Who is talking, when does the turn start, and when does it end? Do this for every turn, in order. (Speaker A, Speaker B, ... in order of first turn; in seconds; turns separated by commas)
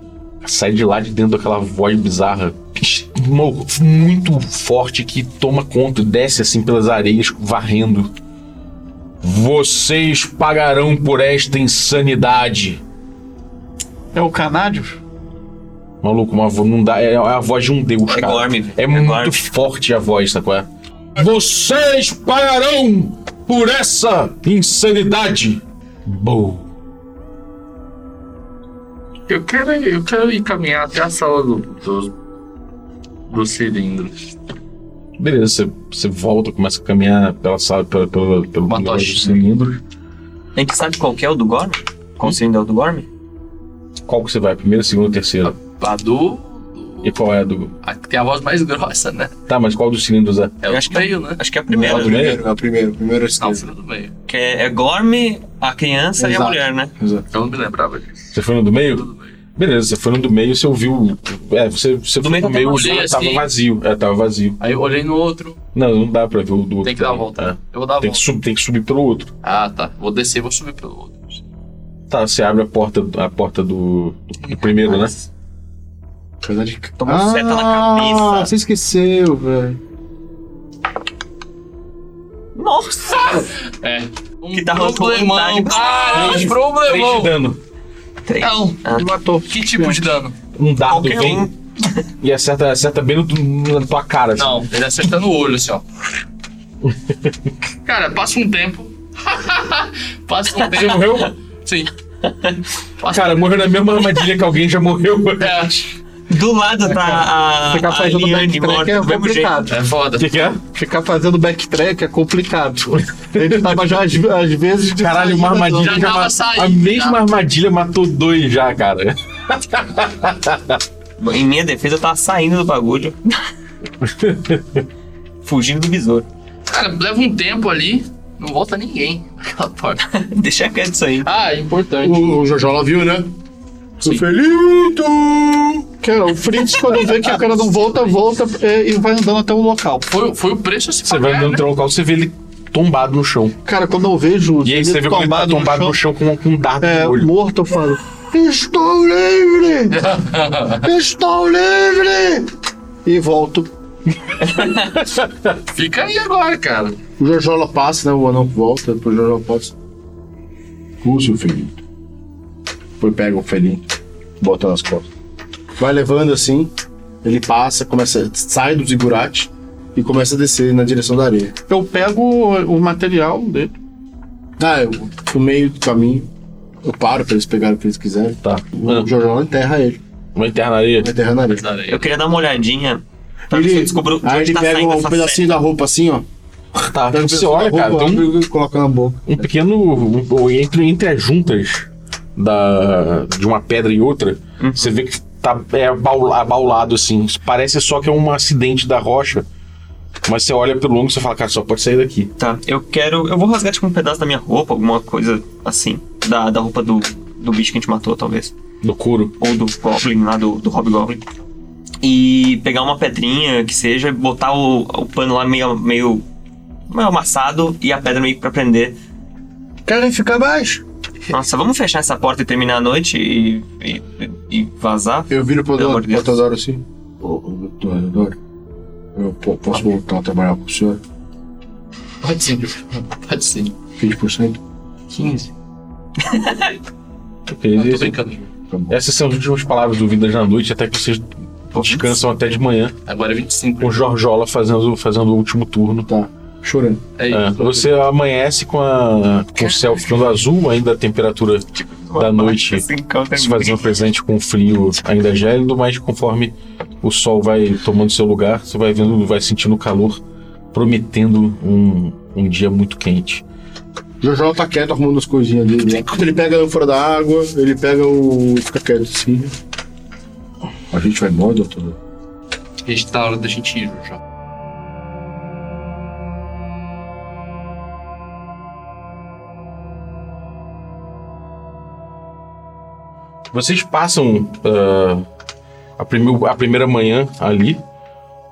Speaker A: 0.4-8.1, Speaker A: 9.2-12.8, Speaker B: 14.1-15.0, Speaker A: 16.0-26.7, Speaker C: 18.1-19.4, Speaker D: 29.3-32.1, Speaker D: 33.3-34.3, Speaker A: 35.2-39.8, Speaker D: 38.7-39.4, Speaker C: 40.5-43.1, Speaker A: 44.0-45.5, Speaker D: 45.4-47.1, Speaker A: 47.0-47.7, Speaker D: 47.8-49.3, Speaker A: 49.5-50.6, Speaker D: 50.6-51.4, Speaker C: 50.6-52.3, Speaker E: 51.7-53.7, Speaker A: 51.8-52.4, Speaker D: 53.4-54.1, Speaker C: 54.3-56.9, Speaker E: 56.2-57.2, Speaker D: 57.3-58.2, Speaker A: 58.3-64.6, Speaker C: 62.2-63.1, Speaker D: 62.5-63.5, Speaker D: 64.6-65.6, Speaker A: 65.7-69.3, Speaker D: 66.8-68.3, Speaker D: 69.4-71.4, Speaker A: 72.1-75.1, Speaker E: 76.4-79.8, Speaker C: 77.0-78.5, Speaker C: 82.5-83.5, Speaker D: 83.2-87.3, Speaker C: 84.5-86.5, Speaker A: 86.1-87.6, Speaker C: 88.2-89.1, Speaker D: 88.4-88.8, Speaker B: 88.9-90.0, Speaker D: 89.5-90.3, Speaker A: 90.5-91.5, Speaker C: 90.9-92.0, Speaker A: 92.2-94.7, Speaker D: 94.3-95.8, Speaker A: 96.8-97.5, Speaker D: 97.8-101.9, Speaker C: 102.3-102.6, Speaker D: 103.0-103.7, Speaker A: 103.1-105.9, Speaker D: 105.4-105.8, Speaker C: 106.3-109.7, Speaker B: 106.8-109.8, Speaker D: 109.7-110.5, Speaker A: 110.1-110.6, Speaker B: 110.7-116.0, Speaker A: 113.2-113.8, Speaker A: 114.9-120.8, Speaker D: 115.7-117.2, Speaker C: 121.2-123.2, Speaker A: 124.0-124.8, Speaker C: 125.4-126.3, Speaker D: 126.7-130.1, Speaker C: 130.2-131.3, Speaker D: 131.2-132.4, Speaker E: 132.0-133.3, Speaker E: 134.0-135.8, Speaker B: 136.0-140.1, Speaker D: 140.1-141.6, Speaker A: 141.0-143.6, Speaker B: 143.6-146.0, Speaker A: 144.6-147.3, Speaker B: 146.8-148.0, Speaker E: 148.3-149.9, Speaker B: 148.5-149.7, Speaker D: 149.9-150.9, Speaker B: 150.8-152.4, Speaker E: 151.2-152.0, Speaker B: 153.1-153.7, Speaker E: 153.2-153.6, Speaker C: 154.4-154.8, Speaker A: 155.1-155.5, Speaker D: 155.7-157.0, Speaker E: 157.2-159.7, Speaker E: 161.0-161.8, Speaker E: 163.0-163.8, Speaker E: 164.4-165.1, Speaker E: 165.8-171.5, Speaker B: 171.7-173.7, Speaker E: 174.6-176.3, Speaker E: 176.8-180.0, Speaker A: 178.4-179.1, Speaker A: 180.3-181.1, Speaker E: 181.0-181.7, Speaker D: 181.5-182.2, Speaker C: 181.9-185.5, Speaker E: 183.5-186.2, Speaker A: 186.8-188.3, Speaker E: 187.1-189.3, Speaker A: 189.3-199.5, Speaker C: 194.6-194.9, Speaker A: 200.2-202.3, Speaker C: 202.4-208.5, Speaker A: 208.8-209.3, Speaker C: 209.4-211.2, Speaker C: 212.0-216.2, Speaker C: 216.9-219.0, Speaker B: 219.8-220.8, Speaker C: 221.3-226.4, Speaker E: 225.3-228.3, Speaker E: 229.1-231.0, Speaker D: 232.2-233.7, Speaker E: 234.0-234.6, Speaker D: 235.1-235.5, Speaker C: 236.2-236.7, Speaker A: 237.5-238.2, Speaker D: 237.7-238.5, Speaker E: 238.7-238.9, Speaker A: 238.9-242.9, Speaker C: 241.7-242.1, Speaker D: 243.1-244.0, Speaker A: 243.8-246.1, Speaker E: 246.1-247.0, Speaker D: 247.2-247.9, Speaker A: 247.3-260.2, Speaker C: 251.8-253.9, Speaker A: 260.7-263.4, Speaker E: 264.2-269.5, Speaker E: 270.9-272.0, Speaker D: 272.9-274.2, Speaker A: 283.5-285.3, Speaker A: 286.0-287.8